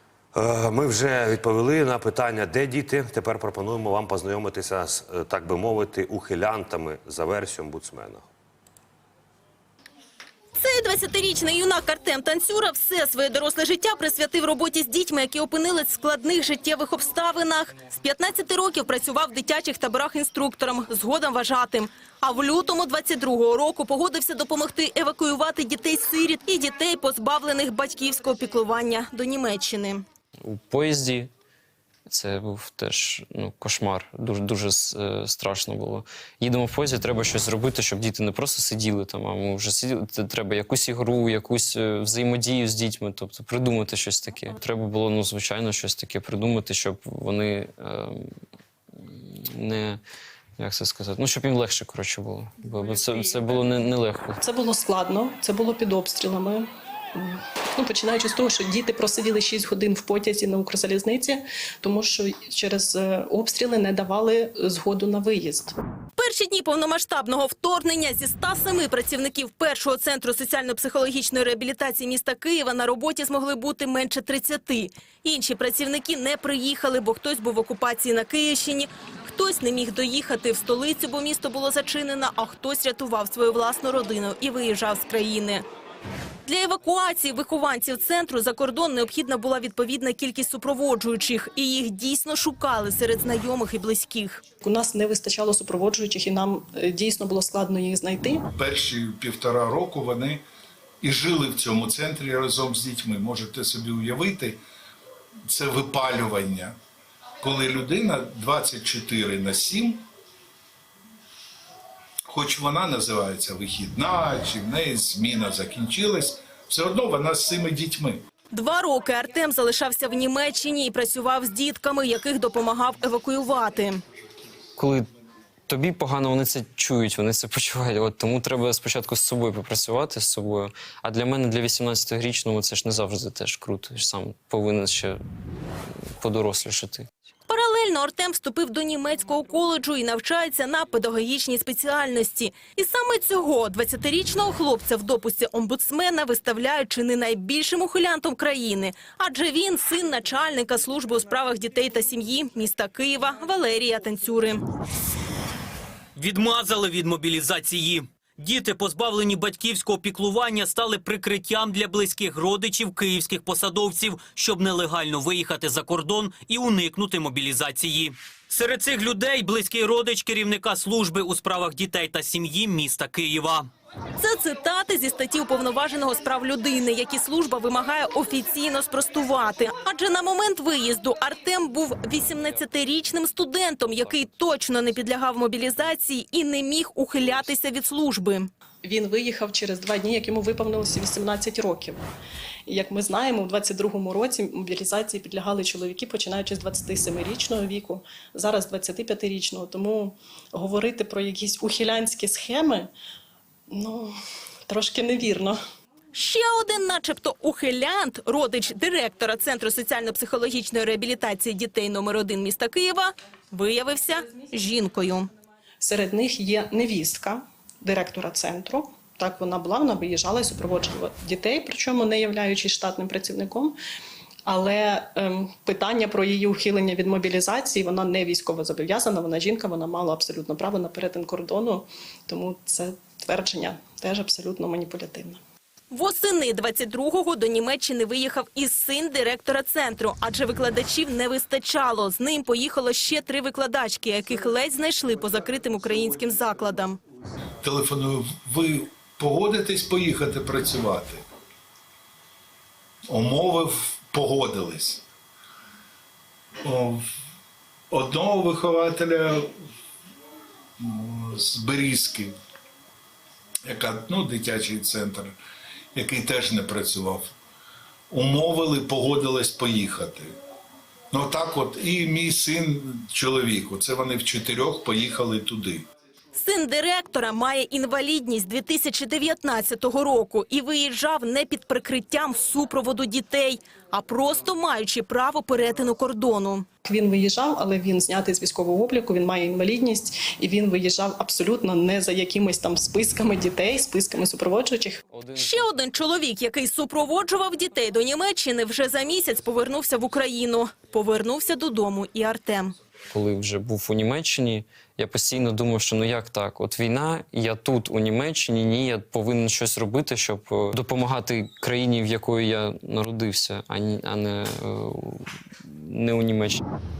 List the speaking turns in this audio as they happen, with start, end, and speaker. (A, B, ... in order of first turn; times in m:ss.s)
0:00.3-0:08.3 A
0:10.6-0:30.0 B
0:30.4-0:31.3 C
0:32.1-0:48.3 C
0:49.0-0:50.0 C
0:50.6-0:54.4 C
0:54.4-1:05.8 D
1:06.2-1:25.6 B
1:26.4-1:34.4 B
1:34.6-1:38.4 D
1:38.5-1:40.4 E
1:41.0-1:44.6 E
1:45.5-1:46.8 E
1:47.4-1:50.0 E
1:52.3-1:58.2 E
1:58.5-2:04.0 B
2:04.8-2:05.1 C
2:05.7-2:15.2 C
2:16.2-2:17.1 C
2:17.5-2:34.7 B
2:36.2-2:53.7 F
2:54.2-3:08.5 B
3:08.8-3:12.0 D
3:12.7-3:22.9 D
3:23.7-3:24.2 D
3:24.7-3:25.6 D
3:26.1-3:35.3 B
3:35.8-3:43.8 D
3:44.5-3:55.4 D
3:55.9-4:07.0 B
4:07.6-4:11.2 E
4:13.1-4:15.0 E
4:16.6-4:17.1 E
4:17.9-4:19.6 E
4:20.8-4:22.4 E
4:23.6-4:25.4 E
4:26.0-4:27.3 E
4:28.1-4:30.4 E
4:31.1-4:35.9 E
4:36.3-4:46.7 B
4:46.8-4:55.0 D
4:55.1-4:55.7 C
4:55.4-5:02.8 B
5:03.1-5:16.6 C